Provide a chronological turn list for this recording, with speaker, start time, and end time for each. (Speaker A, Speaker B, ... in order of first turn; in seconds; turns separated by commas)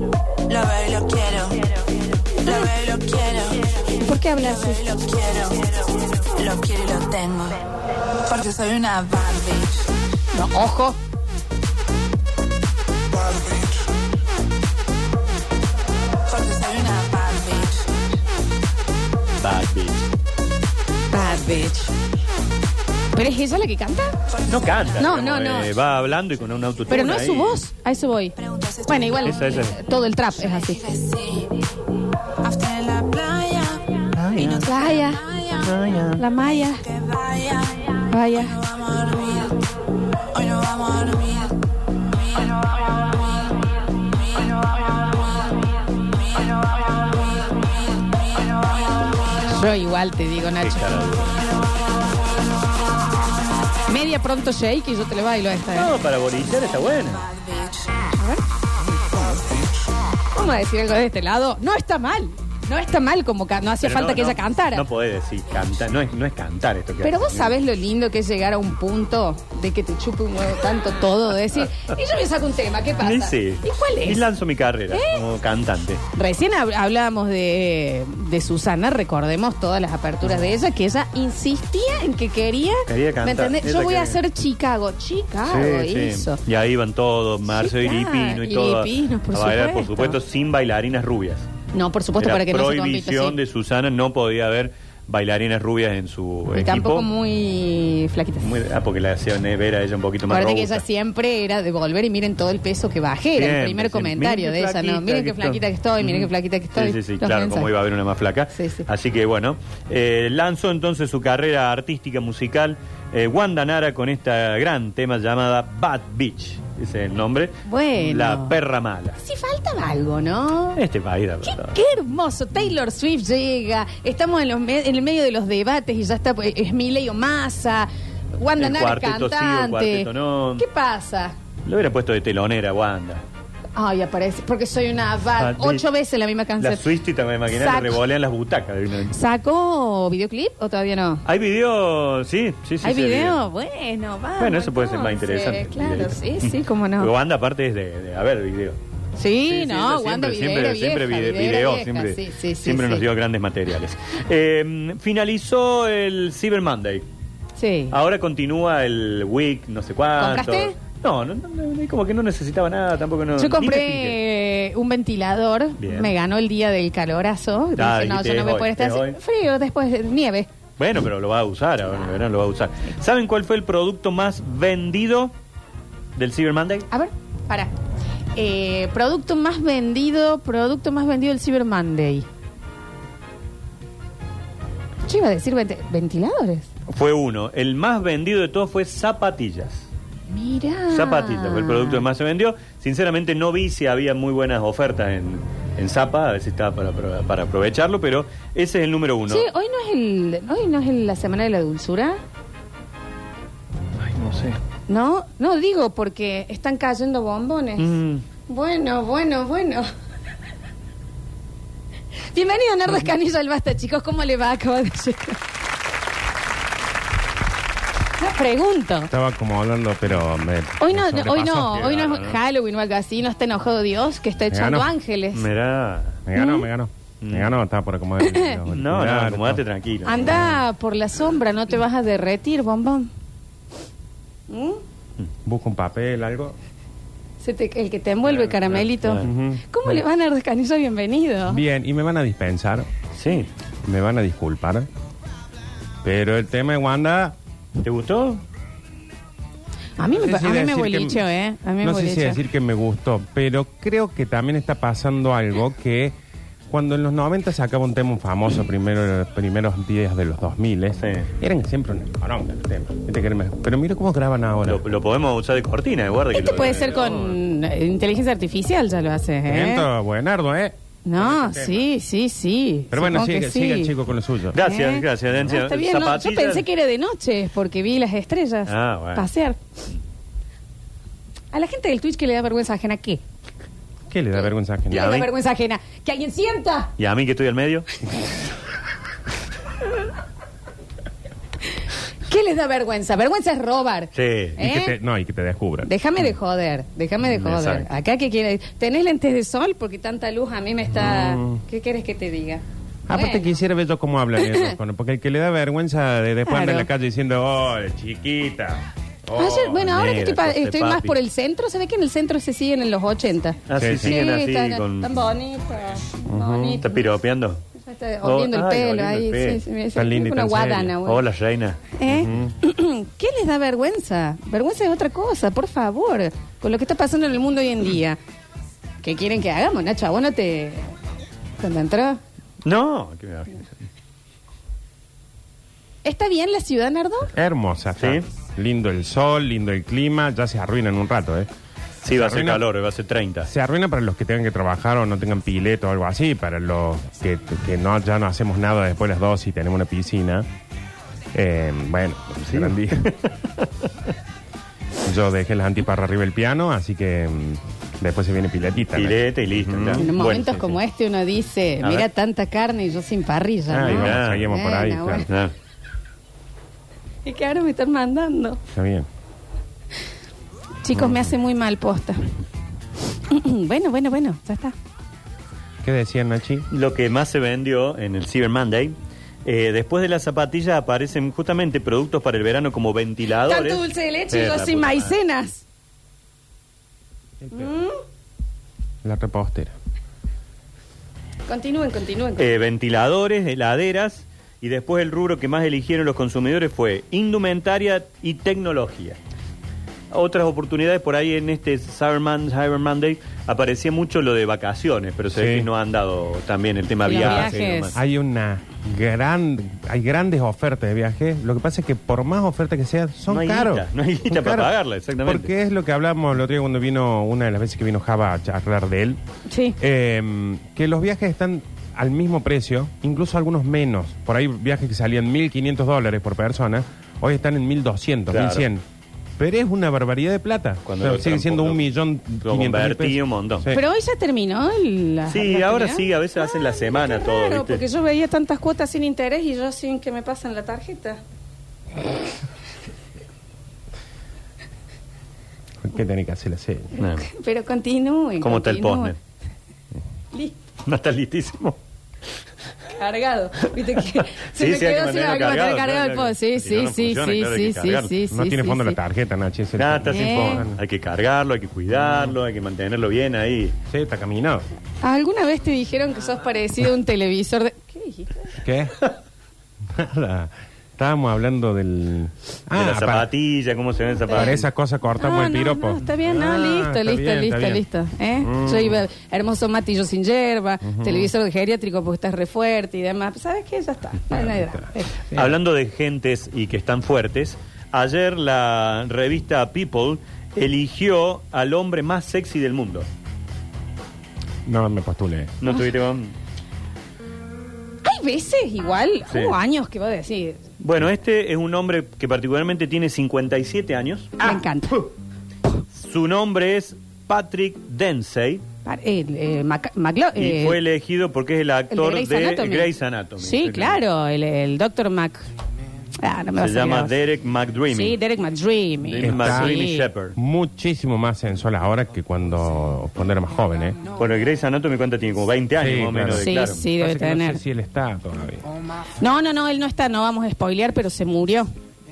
Speaker A: 0.5-9.9, Speaker B: 4.0-4.8, Speaker B: 10.3-11.0, Speaker A: 13.1-13.8, Speaker A: 16.2-17.9, Speaker C: 19.4-20.1, Speaker B: 21.1-21.9, Speaker B: 23.1-24.2, Speaker A: 24.3-24.9, Speaker C: 24.4-27.6, Speaker B: 25.0-25.7, Speaker B: 26.9-30.8, Speaker A: 28.4-31.6, Speaker C: 29.2-29.8, Speaker A: 32.4-35.7, Speaker C: 34.1-34.7, Speaker B: 34.6-35.2, Speaker C: 35.6-36.2, Speaker B: 36.2-36.8, Speaker A: 36.8-39.6, Speaker B: 38.1-38.5, Speaker A: 40.3-41.6, Speaker A: 42.1-49.5, Speaker B: 49.4-51.0, Speaker C: 50.6-51.4, Speaker B: 53.9-55.9, Speaker C: 55.7-57.2, Speaker A: 57.0-58.0, Speaker B: 58.2-58.4, Speaker B: 60.3-64.8, Speaker C: 63.8-67.5, Speaker B: 67.0-74.2, Speaker C: 73.0-76.0, Speaker B: 74.9-75.2, Speaker B: 76.1-86.4, Speaker C: 82.9-84.2, Speaker C: 85.4-91.5, Speaker B: 87.5-90.2, Speaker B: 91.7-93.4, Speaker C: 92.2-97.1, Speaker B: 96.5-98.5, Speaker C: 98.4-100.8, Speaker B: 100.3-107.7, Speaker C: 103.3-119.2, Speaker B: 108.5-108.8, Speaker B: 117.6-118.6, Speaker B: 119.2-120.8, Speaker C: 120.8-121.8, Speaker B: 121.4-131.3, Speaker C: 128.6-130.6, Speaker C: 131.7-133.2, Speaker B: 133.8-136.8, Speaker C: 135.4-135.8, Speaker C: 136.6-139.1, Speaker B: 137.5-138.0, Speaker B: 139.1-141.2, Speaker C: 141.2-143.4, Speaker B: 142.8-147.1, Speaker C: 144.4-148.8, Speaker B: 149.2-153.1, Speaker C: 149.4-157.0, Speaker B: 157.6-158.0, Speaker C: 157.9-164.2, Speaker B: 160.2-160.8, Speaker B: 163.4-170.5, Speaker C: 165.8-166.1, Speaker C: 167.8-169.2, Speaker C: 170.8-175.3, Speaker C: 176.2-176.9, Speaker B: 176.9-177.7, Speaker B: 178.3-182.3, Speaker B: 185.1-186.7, Speaker C: 186.9-189.9, Speaker B: 190.3-192.0, Speaker C: 190.9-199.5, Speaker B: 199.3-202.2, Speaker C: 204.0-204.6, Speaker B: 204.9-207.9, Speaker C: 207.8-208.2, Speaker B: 208.4-209.9, Speaker B: 212.3-215.4, Speaker B: 218.2-219.1, Speaker D: 219.1-221.9, Speaker B: 220.8-225.4, Speaker C: 221.7-222.4, Speaker D: 224.5-224.9, Speaker C: 225.3-226.2, Speaker D: 226.2-229.6, Speaker B: 226.3-226.7, Speaker C: 227.2-227.5, Speaker B: 228.2-228.6, Speaker C: 228.7-230.5, Speaker B: 230.1-233.1, Speaker B: 234.5-234.8, Speaker D: 235.4-236.6, Speaker B: 237.4-241.6, Speaker C: 238.2-239.3, Speaker D: 239.2-239.6, Speaker D: 241.5-242.9, Speaker C: 243.2-243.5, Speaker D: 243.8-244.9, Speaker D: 246.0-247.3, Speaker C: 247.8-248.4, Speaker B: 250.0-252.4, Speaker D: 250.2-251.2, Speaker D: 251.8-256.1, Speaker D: 256.7-264.8, Speaker C: 261.0-261.3, Speaker C: 264.6-267.4, Speaker B: 266.3-269.9, Speaker D: 269.5-271.9, Speaker B: 271.0-273.9, Speaker D: 272.9-274.6, Speaker C: 274.5-276.6, Speaker B: 274.6-279.6, Speaker C: 278.7-279.2, Speaker B: 281.5-283.2, Speaker D: 284.1-285.1, Speaker B: 284.9-286.9, Speaker C: 284.9-285.3, Speaker C: 287.0-287.9, Speaker B: 292.2-294.9, Speaker C: 294.1-294.6, Speaker D: 294.6-295.9, Speaker B: 295.9-303.5, Speaker C: 297.3-297.9, Speaker D: 301.0-301.6, Speaker D: 303.1-309.8, Speaker B: 304.4-304.7, Speaker B: 306.5-306.9, Speaker B: 309.4-317.0, Speaker C: 309.4-311.2, Speaker C: 313.7-315.1, Speaker D: 313.8-314.2, Speaker D: 316.3-316.8, Speaker C: 316.8-317.6, Speaker B: 317.8-321.2, Speaker C: 318.2-319.6, Speaker D: 319.9-320.9, Speaker C: 321.0-321.8, Speaker B: 321.9-328.2, Speaker D: 322.1-322.5, Speaker B: 329.0-330.9, Speaker B: 331.6-332.2, Speaker C: 332.6-333.8, Speaker B: 336.0-337.3, Speaker D: 337.3-341.5, Speaker C: 338.0-338.2, Speaker C: 342.0-343.5, Speaker D: 342.1-342.6, Speaker D: 343.5-350.4, Speaker D: 351.3-353.1, Speaker C: 352.4-354.1, Speaker D: 355.0-360.7, Speaker C: 358.9-360.6, Speaker B: 360.0-365.3, Speaker C: 361.8-362.1, Speaker D: 363.7-365.3, Speaker C: 363.9-364.5, Speaker C: 365.1-365.5, Speaker B: 367.2-368.6, Speaker D: 368.7-369.1, Speaker B: 370.8-372.3, Speaker B: 373.3-374.7, Speaker D: 375.8-376.7, Speaker C: 376.7-385.2, Speaker B: 383.4-385.6, Speaker D: 387.4-387.7, Speaker B: 387.5-388.0, Speaker D: 389.0-389.7, Speaker B: 391.5-392.5, Speaker C: 392.4-399.2, Speaker C: 400.1-408.0, Speaker D: 405.3-405.7, Speaker B: 407.0-408.0, Speaker D: 407.1-419.2, Speaker C: 413.3-415.5, Speaker B: 419.5-419.8, Speaker D: 419.8-428.8, Speaker C: 428.3-428.6, Speaker D: 429.4-433.8, Speaker C: 430.9-431.8, Speaker C: 432.4-433.7, Speaker B: 433.7-441.2, Speaker C: 435.3-437.8, Speaker D: 445.8-446.9, Speaker B: 446.9-449.1, Speaker C: 447.0-447.3, Speaker C: 448.4-449.2, Speaker C: 450.8-451.8, Speaker B: 452.9-459.0, Speaker C: 454.0-458.1, Speaker D: 458.3-460.8, Speaker C: 459.8-463.8, Speaker B: 460.1-460.6, Speaker D: 463.9-464.6, Speaker B: 465.0-468.5, Speaker D: 468.6-468.9, Speaker D: 469.9-473.3, Speaker C: 472.7-474.6, Speaker B: 474.3-474.6, Speaker D: 474.3-477.8, Speaker B: 475.2-485.2, Speaker D: 478.4-479.0, Speaker D: 480.9-481.3, Speaker D: 484.4-484.7, Speaker C: 485.3-493.1, Speaker D: 494.6-495.6, Speaker C: 495.6-496.3, Speaker B: 498.0-500.6, Speaker C: 499.3-499.6, Speaker C: 500.8-504.4, Speaker B: 504.4-505.1, Speaker C: 505.9-508.6, Speaker B: 508.8-510.8, Speaker C: 510.4-514.0, Speaker B: 511.9-515.5, Speaker B: 516.2-517.1, Speaker C: 516.6-518.2, Speaker B: 517.9-520.1, Speaker C: 519.0-520.4, Speaker D: 519.2-519.8, Speaker D: 520.4-524.0, Speaker C: 524.1-526.9, Speaker D: 525.8-528.7, Speaker B: 526.3-527.6, Speaker B: 529.2-531.7